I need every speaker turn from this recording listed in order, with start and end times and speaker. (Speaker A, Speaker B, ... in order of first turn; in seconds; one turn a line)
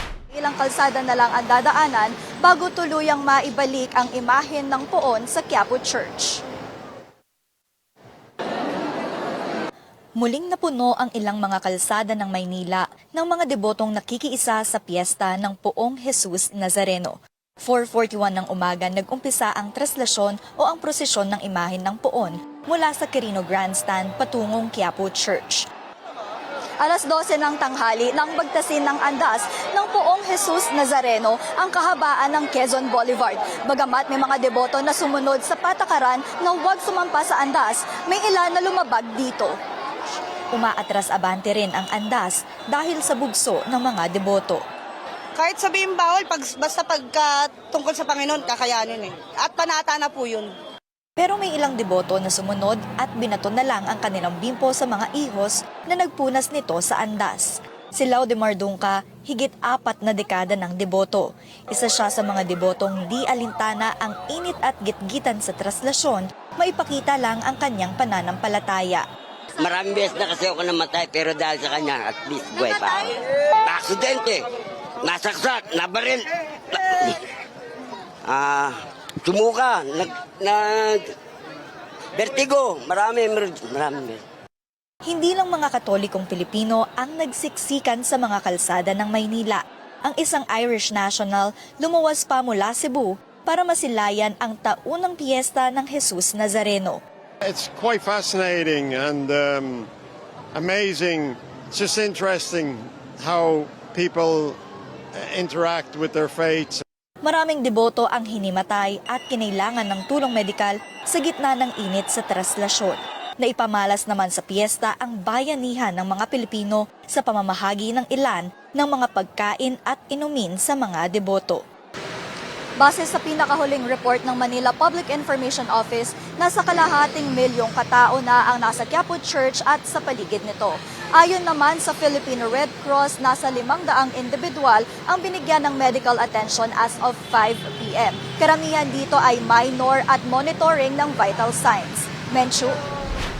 Speaker A: 0.3-6.4
Speaker A: 10.2-25.6
Speaker A: 26.8-39.5
Speaker A: 40.5-44.6
Speaker B: 45.4-50.5
Speaker A: 51.2-69.0
Speaker C: 69.6-73.1
Speaker C: 73.6-74.4
Speaker C: 75.0-77.2
Speaker C: 78.2-81.0
Speaker C: 82.1-84.2
Speaker A: 85.0-97.0
Speaker D: 97.4-99.9
Speaker D: 100.5-104.6
Speaker D: 105.2-106.8
Speaker A: 107.2-121.6
Speaker A: 122.8-142.8